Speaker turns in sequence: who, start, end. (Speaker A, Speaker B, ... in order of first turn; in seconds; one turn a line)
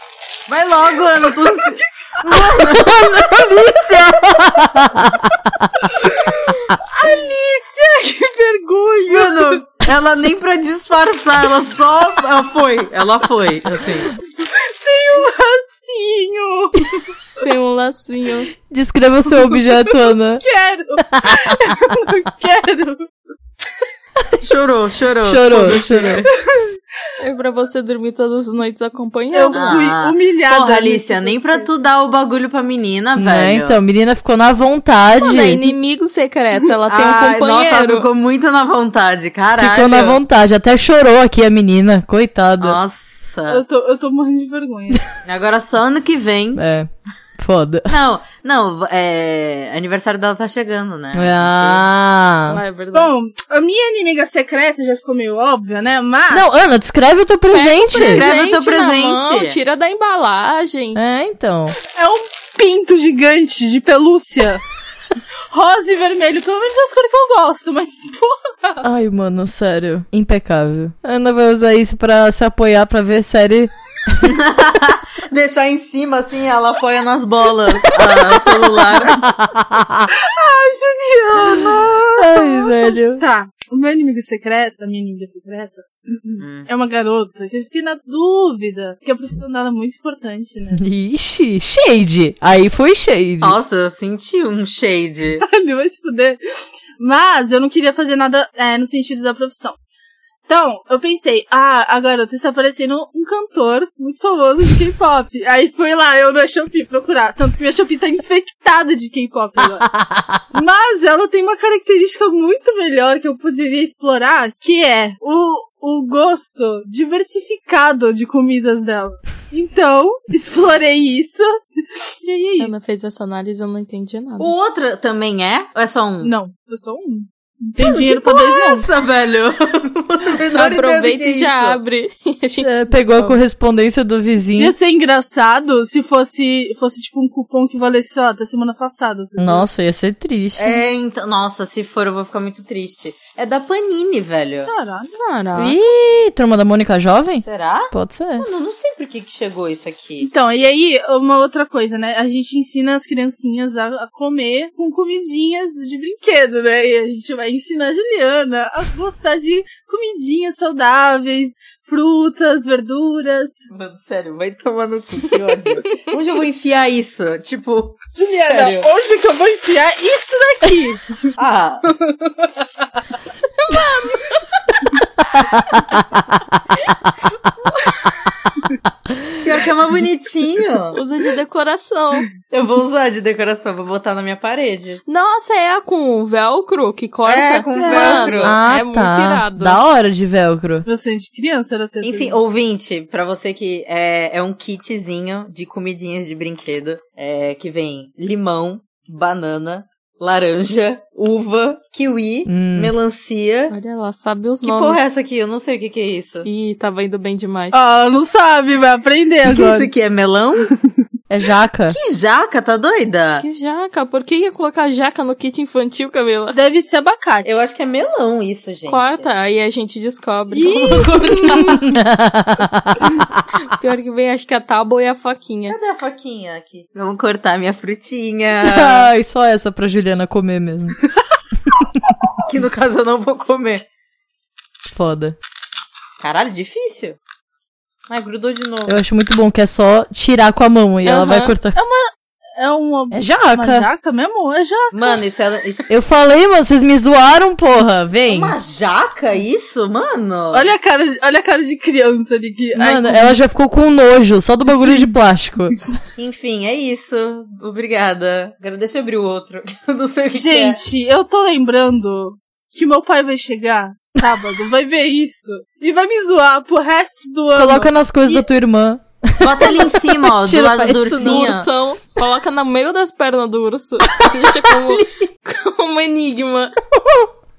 Speaker A: 0.5-3.5
Speaker B: 1.6-3.0
Speaker C: 2.8-5.9
Speaker B: 5.8-9.6
Speaker A: 9.1-14.1
Speaker B: 14.4-17.0
Speaker D: 17.4-18.5
Speaker C: 18.7-20.4
Speaker B: 20.4-23.1
Speaker C: 21.1-21.9
Speaker A: 24.4-26.3
Speaker C: 25.2-26.2
Speaker B: 26.5-26.8
Speaker D: 27.2-29.9
Speaker B: 29.3-31.7
Speaker A: 29.5-33.8
Speaker C: 33.1-35.6
Speaker D: 35.2-38.1
Speaker A: 36.9-40.2
Speaker C: 39.6-42.8
Speaker A: 42.6-43.6
Speaker B: 43.5-45.0
Speaker A: 45.2-46.6
Speaker C: 46.5-47.9
Speaker A: 47.9-51.9
Speaker C: 51.1-52.6
Speaker D: 52.5-53.1
Speaker B: 52.9-56.5
Speaker C: 56.3-58.2
Speaker D: 57.5-61.0
Speaker A: 57.9-59.6
Speaker C: 61.0-61.8
Speaker B: 61.9-64.6
Speaker B: 65.5-68.8
Speaker C: 68.8-74.3
Speaker A: 74.2-79.3
Speaker C: 79.1-80.1
Speaker B: 80.2-90.8
Speaker C: 81.5-83.2
Speaker A: 86.4-86.7
Speaker C: 90.7-93.6
Speaker A: 93.4-95.4
Speaker B: 95.4-96.4
Speaker B: 97.0-99.8
Speaker B: 100.5-109.9
Speaker C: 109.9-110.4
Speaker B: 110.5-122.7
Speaker D: 122.6-124.5
Speaker A: 124.4-126.3
Speaker B: 126.2-128.9
Speaker A: 127.8-131.8
Speaker D: 130.5-133.4
Speaker C: 132.6-134.7
Speaker B: 134.6-139.7
Speaker C: 139.4-140.8
Speaker A: 140.6-144.7
Speaker B: 144.7-145.2
Speaker D: 145.2-145.8
Speaker C: 145.6-148.4
Speaker A: 147.4-150.3
Speaker B: 150.2-163.7
Speaker A: 163.7-168.9
Speaker B: 168.2-171.1
Speaker A: 171.3-171.9
Speaker B: 171.9-172.6
Speaker D: 173.6-174.4
Speaker C: 175.9-176.4
Speaker C: 179.1-179.3
Speaker A: 179.4-181.0
Speaker D: 180.9-182.3
Speaker A: 182.5-185.0
Speaker D: 185.1-189.8
Speaker A: 187.2-188.6
Speaker B: 187.7-188.4
Speaker C: 188.4-190.8
Speaker B: 190.8-192.4
Speaker A: 192.0-203.7
Speaker C: 202.5-202.9
Speaker D: 203.7-205.0
Speaker A: 204.6-206.5
Speaker D: 206.4-207.8
Speaker B: 207.7-209.9
Speaker A: 209.4-210.7
Speaker C: 211.3-211.9
Speaker A: 211.9-213.4
Speaker D: 213.4-216.6
Speaker B: 216.5-217.6
Speaker A: 217.4-219.3
Speaker D: 218.9-221.2
Speaker B: 220.5-221.8
Speaker A: 220.7-221.8
Speaker C: 221.7-223.4
Speaker D: 223.6-225.8
Speaker A: 225.7-229.1
Speaker C: 228.6-231.0
Speaker A: 232.4-233.8
Speaker C: 234.9-235.3
Speaker A: 236.2-237.2
Speaker A: 238.1-239.0
Speaker C: 238.8-241.8
Speaker D: 241.0-241.5
Speaker B: 241.7-245.2
Speaker C: 243.1-243.9
Speaker A: 244.9-245.9
Speaker C: 245.9-248.6
Speaker A: 248.3-250.7
Speaker B: 250.5-253.3
Speaker C: 252.8-255.7
Speaker B: 254.6-255.1
Speaker A: 256.1-260.8
Speaker B: 260.4-268.4
Speaker C: 267.5-271.6
Speaker A: 269.4-271.7
Speaker D: 271.1-276.7
Speaker C: 274.7-275.1
Speaker C: 276.9-277.3